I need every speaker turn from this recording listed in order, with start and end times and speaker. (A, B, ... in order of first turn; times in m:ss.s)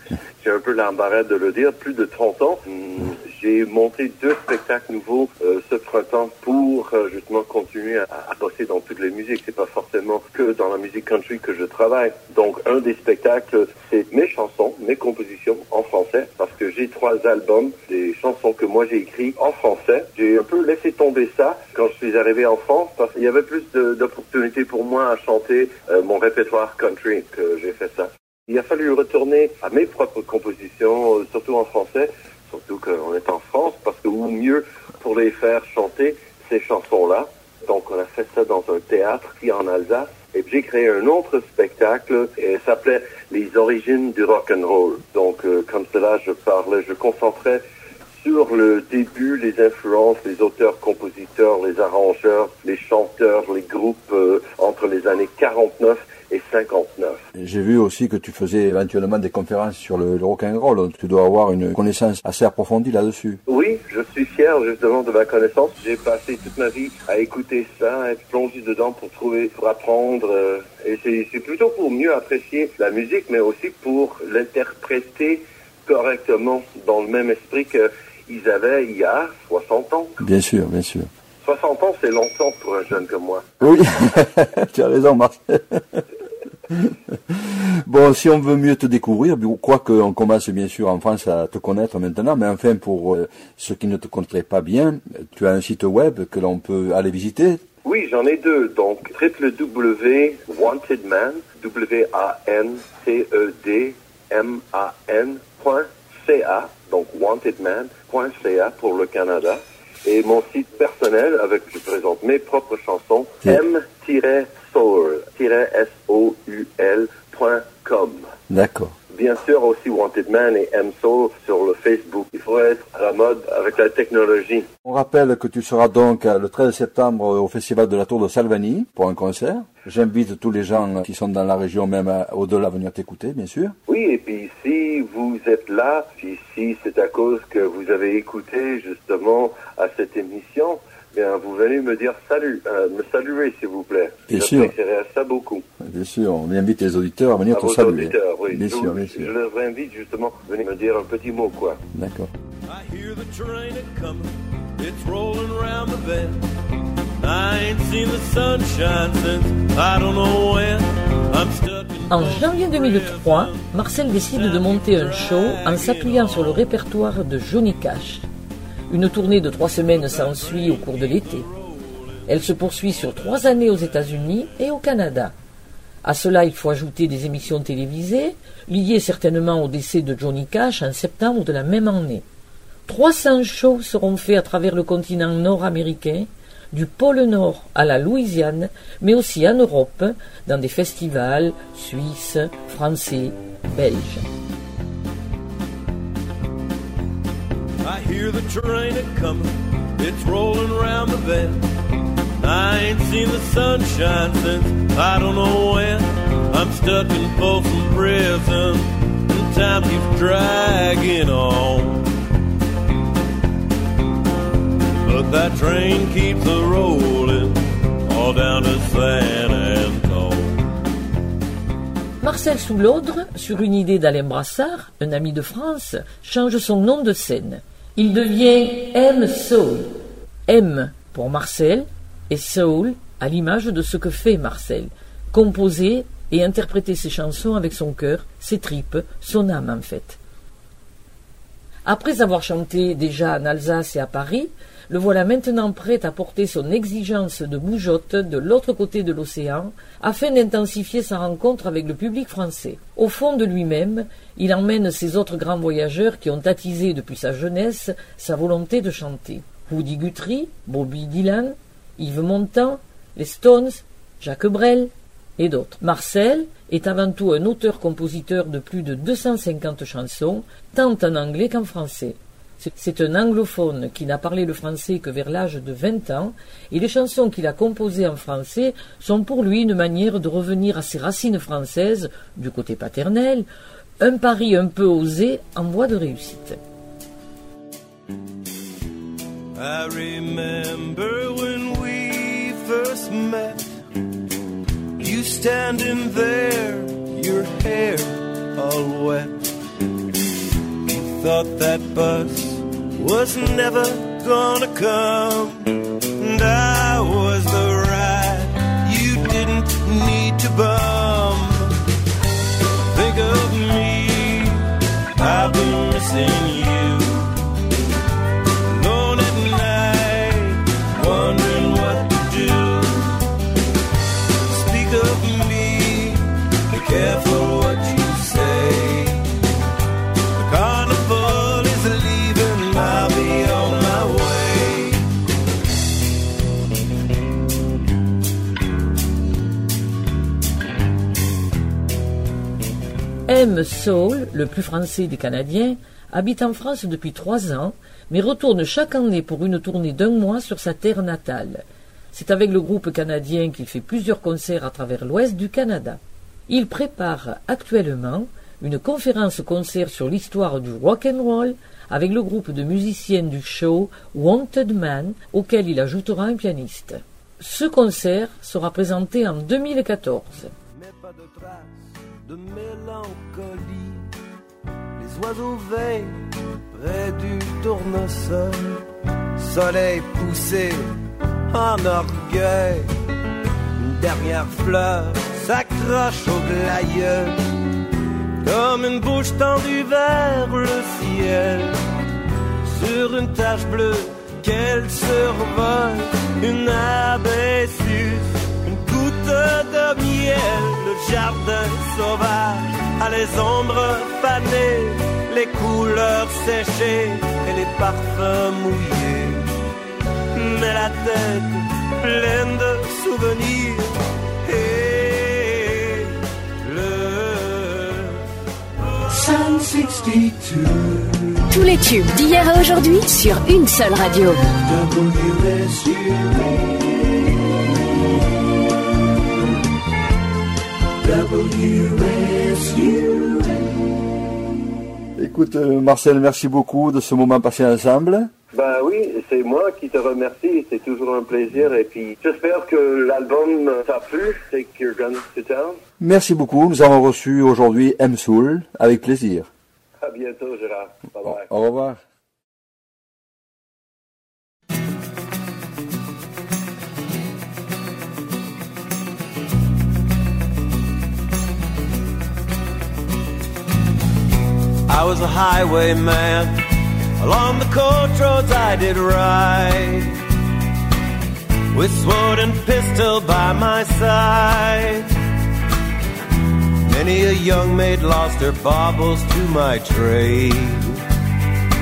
0:00.4-0:47.6 A
0:48.2-0:57.2 A
0:57.4-1:03.4 B
1:03.5-1:20.2 A
1:20.2-1:21.1 B
1:21.4-1:23.5 A
1:23.6-1:26.0 B
1:26.7-1:37.6 B
1:37.8-1:58.3 A
1:58.5-1:58.9 B
1:59.1-2:04.7 A
2:04.8-2:13.8 B
2:13.9-2:25.6 A
2:24.3-2:24.7 B
2:25.8-2:29.3 B
2:27.5-2:31.8 A
2:31.9-2:32.3 B
2:32.7-2:36.4 C
2:37.2-2:46.6 C
2:42.1-2:48.3 D
2:48.9-2:51.5 D
2:49.7-2:54.3 C
2:52.3-2:55.4 D
2:56.0-3:02.2 D
3:02.9-3:14.3 D
3:17.8-3:21.6 C
3:22.4-3:32.1 C
3:35.0-3:40.6 C
3:42.2-3:49.9 D
3:50.5-4:00.2 D
4:01.8-4:43.5 D
4:44.0-4:46.6 D
4:49.6-4:53.6 C
4:55.0-4:59.4 C
5:00.8-5:11.8 C
5:12.9-5:17.4 C
5:18.7-5:23.2 C
5:24.5-5:29.2 C
5:30.4-5:35.1 C
5:43.3-6:10.5 D
6:10.7-6:14.1 C
6:15.0-6:18.9 C
6:19.4-6:21.0 C
6:21.5-6:22.9 C
6:23.8-6:27.4 C
6:28.4-6:31.8 C
6:32.6-6:49.6 C
6:50.3-6:58.2 C
6:58.9-7:01.5 C
7:01.5-7:04.5 E
7:04.5-7:07.1 C
7:11.0-7:13.6 C
7:15.2-7:18.3 B
7:18.5-7:25.8 A
7:26.0-7:29.5 B
7:30.0-7:31.4 A
7:31.2-7:32.0 B
7:44.9-7:46.7 C
7:47.2-7:50.2 C
7:51.7-7:55.1 C
7:56.8-8:01.0 C